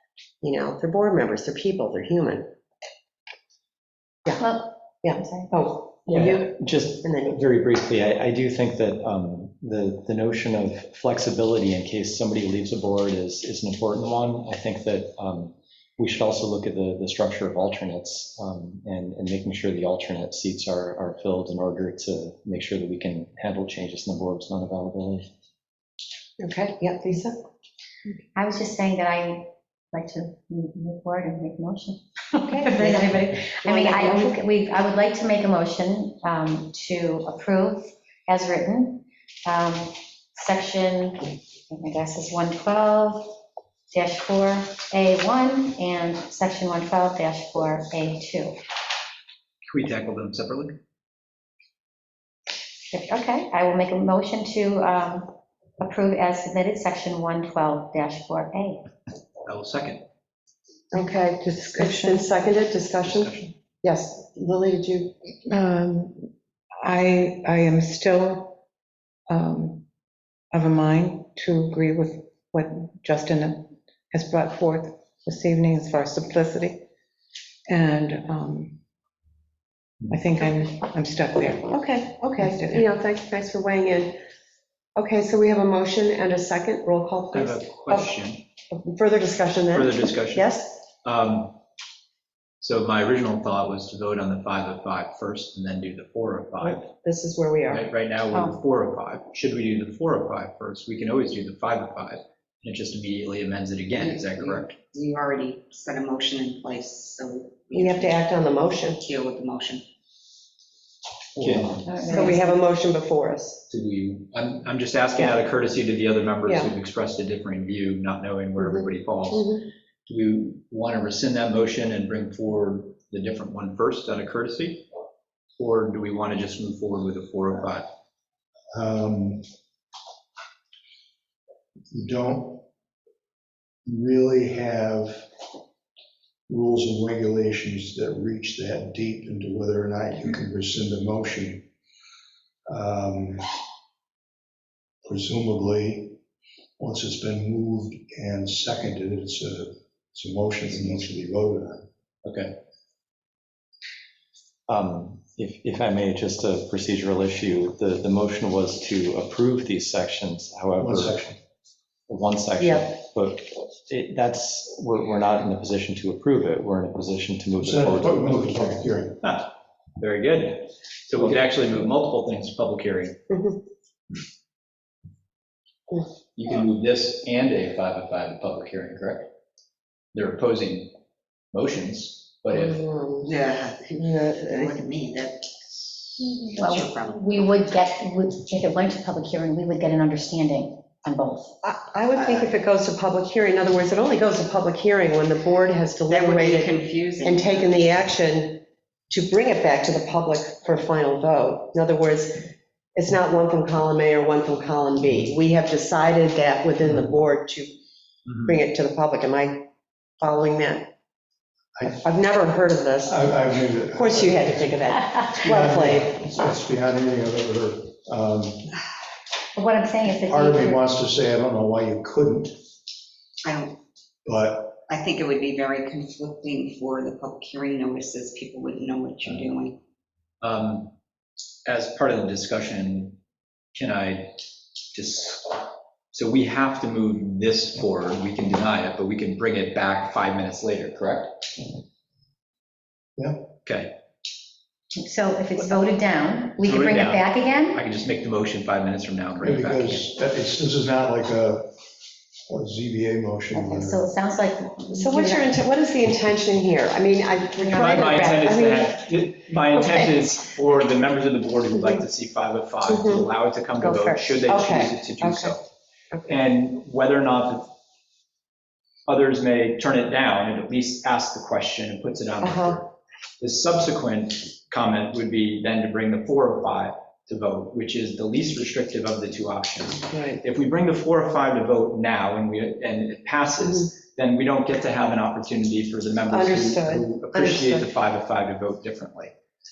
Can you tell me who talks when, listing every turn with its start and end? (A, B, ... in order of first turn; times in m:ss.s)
0:00.4-0:02.4 A
0:04.4-0:05.5 B
0:05.0-0:07.4 A
0:06.1-0:25.3 C
0:26.4-0:27.4 A
0:28.3-0:43.4 B
0:32.4-0:33.1 A
0:33.6-0:34.4 A
0:43.9-0:48.6 B
0:49.7-0:50.8 D
0:52.9-0:58.8 B
0:59.4-1:00.0 D
1:00.9-1:05.2 A
1:01.5-1:02.3 E
1:03.0-1:03.5 D
1:05.5-1:06.3 E
1:06.8-1:08.6 E
1:09.3-1:09.8 E
1:10.5-1:16.8 E
1:17.7-1:18.8 E
1:20.1-1:22.9 E
1:21.7-1:24.2 A
1:25.0-1:28.1 A
1:27.3-1:28.4 D
1:28.7-1:30.8 A
1:29.7-1:31.6 D
1:32.6-1:36.9 D
1:36.6-1:37.9 A
1:37.7-1:44.7 D
1:44.0-1:48.2 F
1:47.7-1:49.0 A
1:49.0-1:49.8 F
1:51.4-1:51.9 D
1:51.8-1:52.5 B
1:52.0-1:53.6 A
1:53.7-2:04.8 D
1:56.4-1:56.7 A
1:58.6-1:59.6 A
2:05.6-2:07.9 D
2:08.7-2:09.4 G
2:11.9-2:12.6 G
2:13.8-2:15.2 G
2:16.5-2:21.6 G
2:22.7-2:23.5 G
2:25.0-2:26.2 G
2:26.8-2:31.8 G
2:32.2-2:32.5 D
2:34.7-2:41.2 C
2:40.8-2:41.4 G
2:42.1-2:48.7 C
2:42.6-2:42.9 A
2:47.6-2:49.2 G
2:49.2-2:53.2 D
2:53.3-2:53.6 A
2:56.4-2:59.3 D
3:00.1-3:00.9 D
3:01.5-3:02.8 D
3:02.5-3:03.3 A
3:03.2-3:07.5 F
3:04.1-3:04.7 A
3:06.2-3:11.5 B
3:11.6-3:27.7 A
3:12.1-3:12.5 F
3:16.1-3:17.8 F
3:28.4-3:29.6 A
3:30.2-3:30.9 A
3:32.0-3:33.2 A
3:33.0-3:38.7 G
3:33.9-3:36.2 A
3:39.5-3:40.8 B
3:40.2-3:42.6 G
3:43.4-3:43.8 F
3:44.2-3:44.8 G
3:44.9-3:49.8 F
3:50.4-3:50.9 D
3:51.6-3:53.2 D
3:53.7-3:54.4 D
3:54.9-4:01.3 D
4:03.2-4:03.5 G
4:03.6-4:03.9 D
4:04.9-4:07.8 B
4:06.6-4:10.0 D
4:09.4-4:11.7 G
4:12.5-4:14.0 G
4:13.5-4:15.5 B
4:14.9-4:19.0 A
4:17.6-4:18.3 B
4:17.8-4:25.6 D
4:19.7-4:20.2 A
4:21.7-4:22.0 A
4:22.8-4:23.2 A
4:23.8-4:24.3 B
4:24.4-4:25.5 A
4:26.3-4:27.7 D
4:29.1-4:49.3 D
4:32.4-4:32.8 A
4:40.1-4:40.4 A
4:46.3-4:47.9 A